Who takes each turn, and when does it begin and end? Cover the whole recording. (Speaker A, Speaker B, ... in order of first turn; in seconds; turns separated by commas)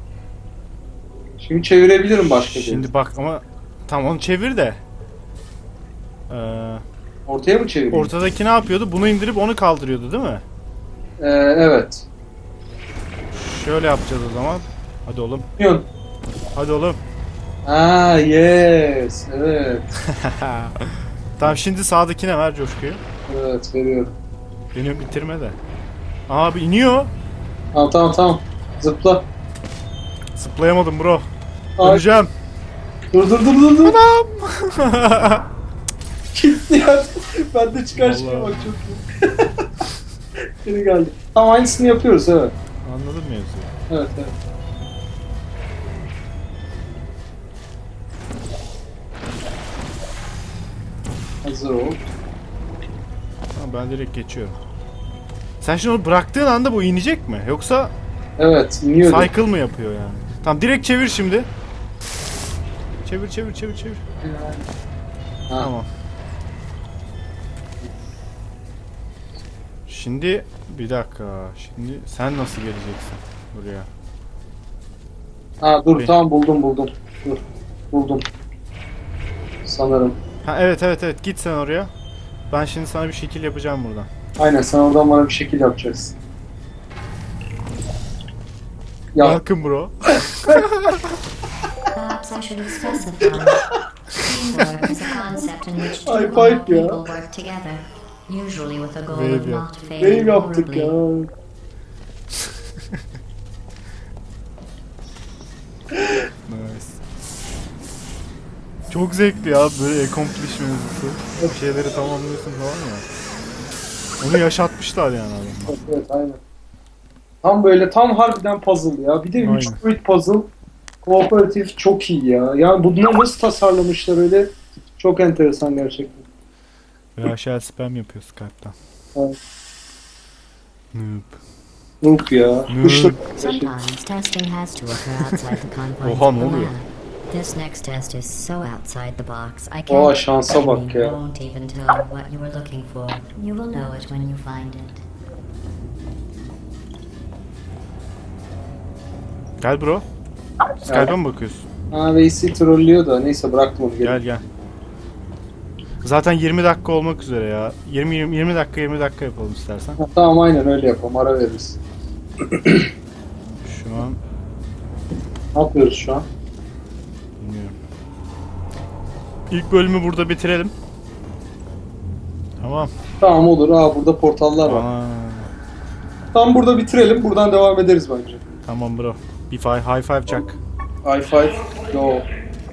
Speaker A: 1.4-2.9, Speaker B: 2.5-4.8, Speaker B: 6.3-6.8, Speaker A: 7.3-8.1, Speaker B: 7.9-10.4, Speaker A: 11.2-12.1, Speaker B: 13.3-15.5, Speaker A: 15.6-15.9, Speaker B: 16.6-17.0, Speaker A: 17.6-19.9, Speaker B: 20.1-23.0, Speaker A: 23.3-24.1, Speaker B: 24.7-25.6, Speaker B: 26.3-27.1, Speaker A: 27.7-29.2, Speaker B: 30.4-31.3, Speaker A: 31.8-32.0, Speaker B: 31.8-32.3, Speaker A: 33.1-34.0, Speaker B: 33.8-35.5, Speaker A: 36.3-39.5, Speaker B: 37.9-38.8, Speaker A: 40.6-42.5, Speaker B: 42.8-43.7, Speaker A: 43.9-44.3, Speaker A: 51.4-52.0, Speaker B: 53.5-54.6, Speaker B: 55.6-57.9, Speaker A: 58.4-59.3, Speaker B: 59.0-61.5, Speaker B: 63.0-64.0, Speaker A: 64.2-64.7, Speaker B: 65.6-65.9, Speaker B: 69.9-73.9, Speaker A: 75.6-78.3, Speaker A: 79.7-80.2, Speaker B: 80.4-81.9, Speaker B: 82.5-84.1, Speaker A: 84.4-86.2, Speaker A: 89.1-89.4, Speaker B: 89.2-91.2, Speaker A: 90.3-90.6, Speaker C: 91.9-101.0, Speaker A: 96.0-97.0, Speaker B: 99.1-99.7, Speaker A: 100.0-101.3, Speaker B: 106.5-107.0, Speaker B: 108.9-113.1, Speaker B: 114.2-115.8, Speaker A: 115.7-116.4, Speaker A: 117.4-120.5, Speaker B: 119.4-119.8, Speaker A: 121.0-126.2, Speaker B: 127.2-128.8, Speaker B: 130.9-131.4, Speaker A: 132.0-133.7, Speaker B: 132.7-133.2, Speaker C: 133.4-145.0, Speaker B: 136.0-136.7, Speaker A: 139.9-141.1, Speaker B: 149.6-150.1, Speaker B: 150.8-151.7, Speaker A: 150.9-151.1, Speaker A: 151.9-154.2, Speaker B: 154.0-154.4, Speaker B: 156.0-160.0, Speaker A: 160.0-161.8, Speaker A: 162.4-162.9, Speaker B: 163.6-164.2, Speaker A: 165.5-166.2, Speaker B: 167.4-167.8, Speaker B: 169.5-170.7, Speaker B: 172.6-172.9, Speaker A: 173.2-174.9, Speaker B: 174.6-175.5, Speaker A: 176.3-178.4, Speaker B: 178.6-180.6, Speaker A: 181.0-182.3